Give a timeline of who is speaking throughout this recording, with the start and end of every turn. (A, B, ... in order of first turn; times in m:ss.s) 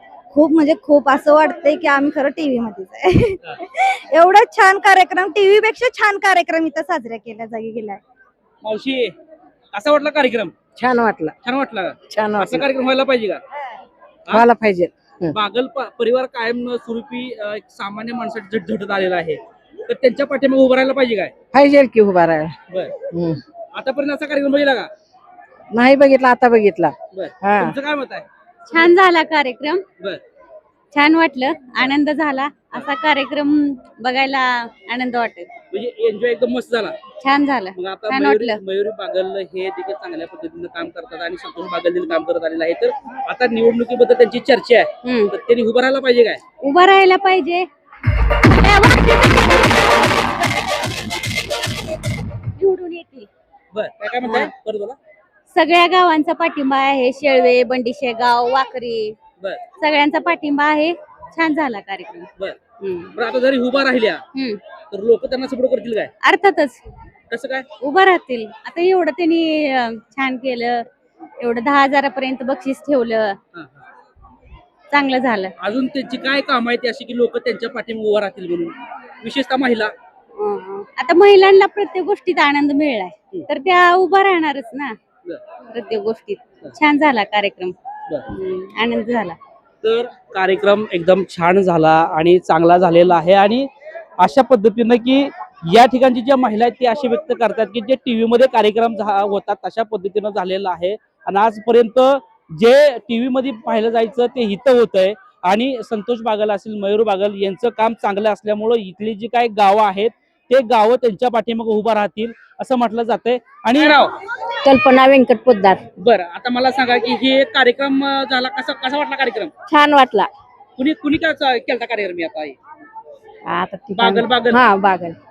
0:00.3-0:08.0 A
0:08.6-0:09.2 B
0:09.7-0:10.5 B
0:10.8-0:11.4 C
0:11.4-0:13.4 B
0:12.1-0:12.7 C
0:14.3-0:14.5 B
0:14.3-0:15.3 C
0:15.2-0:21.3 B
0:21.5-0:22.6 C
0:23.1-0:23.4 C
0:23.7-0:24.9 B
0:25.7-0:27.8 C
0:27.1-0:28.9 B
0:28.7-0:29.8 D
0:30.9-0:35.5 D
0:35.7-0:37.0 B
0:37.2-0:38.6 D
0:37.7-0:46.4 B
0:45.0-0:45.3 D
0:46.6-0:47.7 D
0:48.6-0:49.4 D
0:52.6-0:53.3 D
0:53.7-0:55.0 B
0:54.2-0:54.5 D
0:55.5-0:59.2 D
0:59.8-1:03.2 D
1:03.2-1:04.2 B
1:04.4-1:04.6 D
1:04.9-1:06.1 B
1:06.2-1:06.8 D
1:07.3-1:07.7 B
1:07.8-1:10.9 D
1:11.4-1:13.4 D
1:13.5-1:13.9 B
1:14.9-1:15.5 D
1:15.6-1:19.9 B
1:20.4-1:25.0 D
1:25.7-1:27.8 D
1:28.3-1:29.4 D
1:29.8-1:33.7 B
1:34.2-1:54.2 B
1:54.7-1:55.8 E
1:56.0-1:59.5 B
1:59.7-2:00.3 E
2:00.8-2:02.6 B
2:03.5-2:03.9 E
2:04.0-2:04.6 B
2:04.0-2:05.1 A
2:04.7-2:05.1 E